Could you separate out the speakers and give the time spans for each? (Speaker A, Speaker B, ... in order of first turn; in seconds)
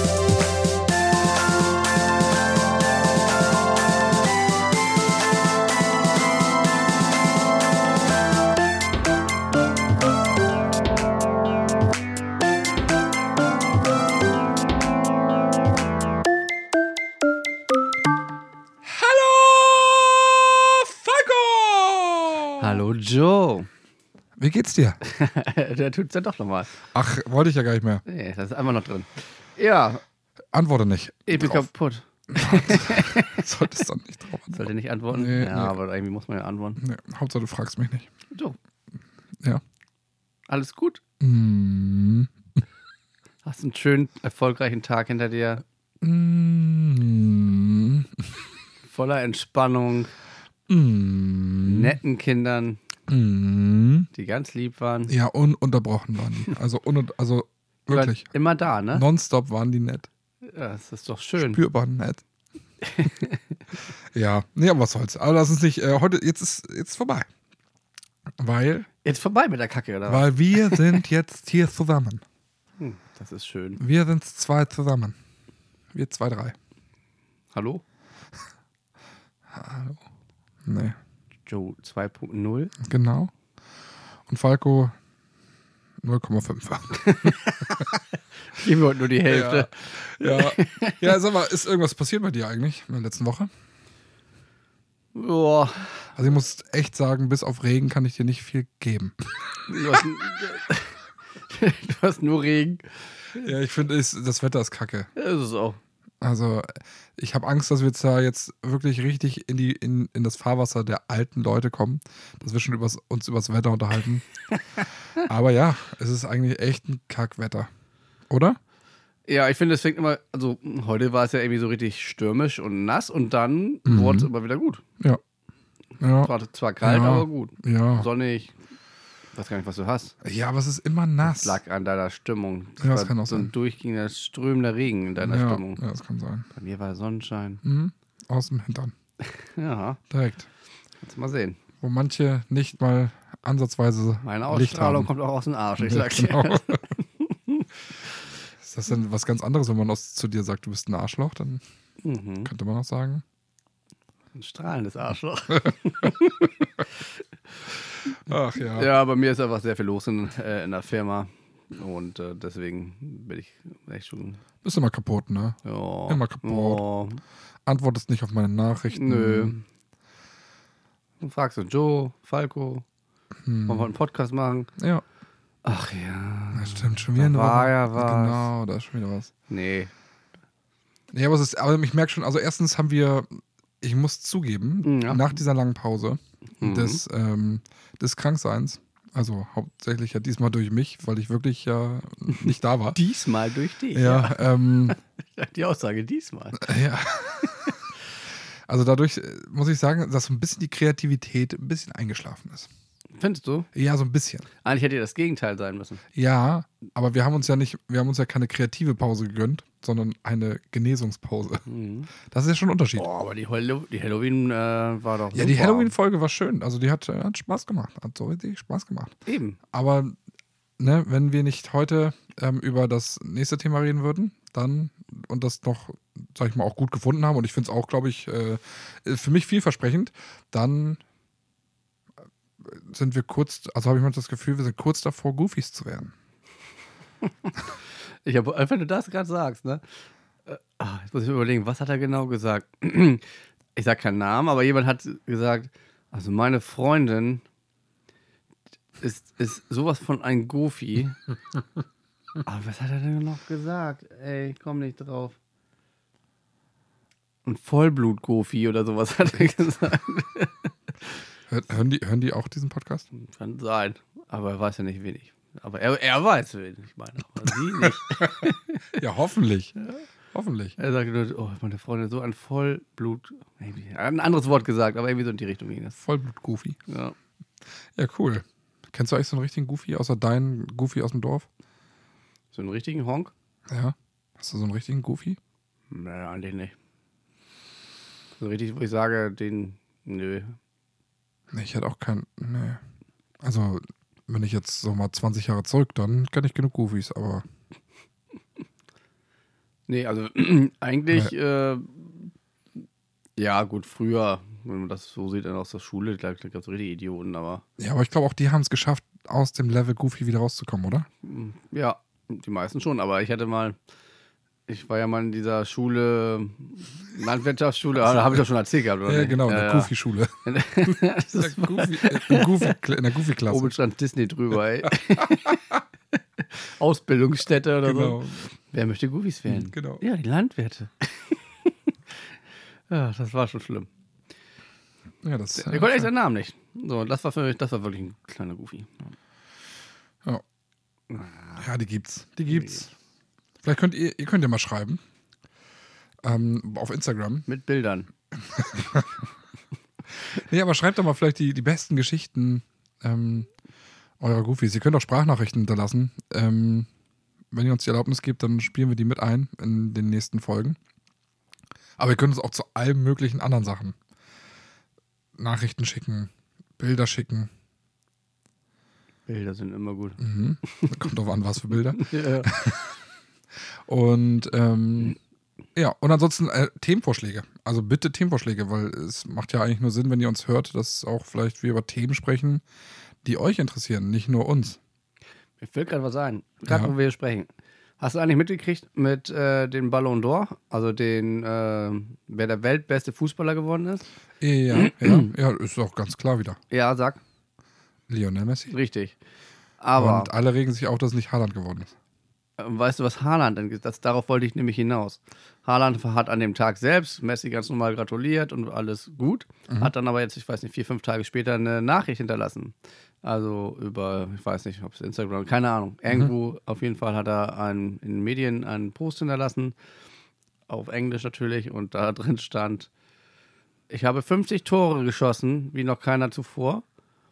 Speaker A: 18.9-22.8, 24.4-25.0, 26.9-28.0, 30.5-31.7, 32.3-35.8, 36.8-38.1, 41.2-42.3, 46.0-48.3, 50.7-52.0, 53.1-54.1, 55.1-58.3, 58.9-60.1, 61.4-62.2, 64.1-67.3, 68.4-68.9, 70.1-72.2, 73.8-75.2, 75.9-76.5, 79.5-80.0, 80.6-81.0, 82.8-83.3, 84.3-84.9, 86.0-87.8, 89.2-93.5, 96.2-99.1, 103.3-105.1, 106.2-114.3, 115.2-117.7, 118.3-118.6, 123.8-124.3, 126.0-128.1, 130.2-131.6, 132.8-133.5, 135.2-136.5, 137.6-138.9, 140.1-140.5, 141.8-145.1, 145.8-146.8, 148.6-151.6, 152.4-153.2, 158.1-158.9, 164.6-166.8, 167.7-169.5, 173.4-173.9, 174.8-175.0, 176.5-179.3, 181.1-193.0, 193.9-195.0, 196.6-197.7, 198.7-202.7, 203.7-204.5, 206.1-211.7, 212.2-213.1, 215.3-219.2, 219.7-220.2, 220.8-231.0, 232.6-236.1, 261.5-263.1, 268.1-269.7, 270.3-270.7, 276.0-276.8, 277.9-281.5, 283.7-285.4, 291.5-292.8, 293.4-297.4, 307.8-311.1, 318.1-318.4, 319.0-323.7, 324.8-325.5, 327.8-328.4, 329.5-330.0, 335.2-336.1, 341.6-342.9, 343.6-345.0, 346.2-347.4, 348.4-349.1, 350.3-353.5, 354.2-356.9, 357.5-360.8, 362.0-363.9, 365.4-367.5, 370.2-372.9, 373.9-375.2, 375.7-382.6, 383.2-384.8, 394.4-396.6, 398.1-398.7, 400.0-401.9
Speaker B: 22.6-23.7, 25.0-26.7, 28.1-30.0, 31.3-33.5, 34.5-36.8, 38.3-38.5, 40.5-41.0, 43.4-45.6, 48.9-50.1, 51.6-52.8, 54.1-55.1, 57.9-59.0, 60.4-61.6, 62.8-63.4, 69.0-71.0, 72.8-73.8, 77.5-77.8, 81.5-82.7, 87.0-91.0, 95.1-96.2, 99.7-103.5, 105.2-105.8, 119.3-124.8, 126.2-128.6, 129.3-130.2, 131.2-135.8, 136.5-137.6, 139.4-140.0, 141.0-141.6, 144.2-147.7, 152.0-152.5, 154.3-156.5, 158.7-164.4, 165.6-167.2, 168.9-169.6, 171.2-172.8, 173.7-174.7, 175.6-178.5, 179.5-179.9, 184.8-185.3, 186.6-187.0, 192.9-196.7, 203.2-203.7, 204.6-206.0, 211.7-212.1, 212.9-215.9, 219.2-219.6, 238.2-239.8, 240.4-243.2, 243.7-247.4, 249.0-251.2, 252.4-255.4, 257.4-260.7, 263.1-269.0, 270.8-276.0, 276.9-277.1, 282.5-283.3, 285.9-286.7, 288.4-290.6, 299.9-302.3, 303.4-307.6, 311.2-313.8, 314.7-319.9, 320.4-322.8, 323.5-325.7, 326.4-331.7, 332.9-333.9, 335.5-339.1, 341.1-341.6, 347.5-348.1, 369.3-370.9, 371.9-372.5, 385.6-394.0, 394.7-395.3, 396.7-397.2, 398.7-399.1, 399.8-400.3, 402.6-419.7, 420.7-422.9, 423.9-426.8